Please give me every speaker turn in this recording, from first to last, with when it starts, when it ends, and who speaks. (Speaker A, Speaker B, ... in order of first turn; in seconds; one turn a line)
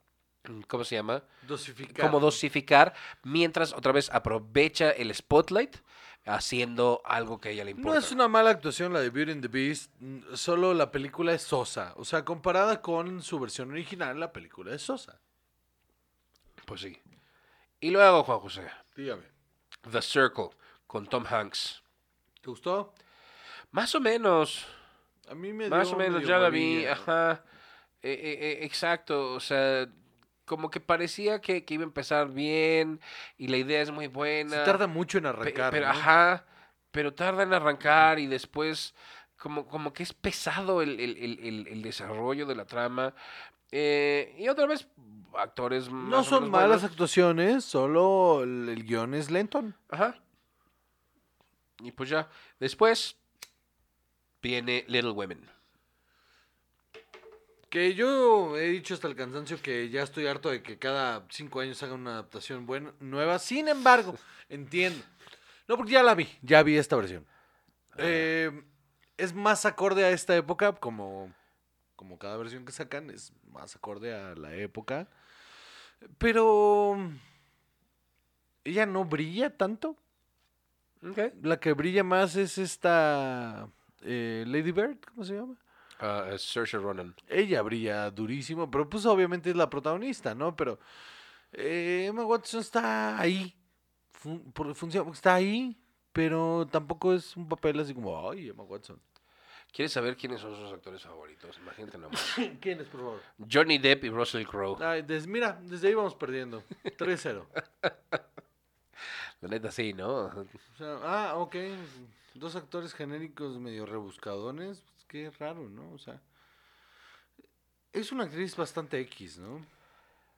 Speaker A: 0.5-1.2
Speaker B: 1.4-2.4
Speaker A: 1.9-8.2
Speaker B: 7.8-15.2
Speaker A: 16.6-17.0
Speaker A: 17.8-18.8
Speaker B: 18.9-19.3
Speaker A: 19.8-21.8
Speaker B: 22.4-22.9
Speaker A: 23.7-24.7
Speaker B: 25.3-27.1
Speaker A: 25.6-27.4
Speaker A: 28.0-29.9
Speaker A: 30.4-34.8
Speaker B: 34.5-36.1
Speaker A: 35.4-43.1
Speaker A: 43.7-46.9
Speaker B: 46.0-49.7
Speaker A: 49.9-50.2
Speaker A: 51.8-53.2
Speaker A: 54.4-55.5
Speaker B: 57.7-65.1
Speaker B: 65.7-67.2
Speaker A: 67.9-68.2
Speaker B: 68.0-68.6
Speaker B: 69.2-71.3
Speaker B: 72.0-75.1
Speaker B: 76.2-77.2
Speaker B: 78.6-80.0
Speaker A: 81.0-81.3
Speaker B: 81.3-85.6
Speaker A: 86.0-87.2
Speaker B: 87.3-90.8
Speaker B: 91.5-93.5
Speaker B: 94.1-99.0
Speaker A: 99.7-102.3
Speaker B: 102.1-103.2
Speaker A: 103.4-104.8
Speaker B: 104.8-107.5
Speaker A: 109.4-110.6
Speaker B: 110.8-116.2
Speaker B: 117.9-119.7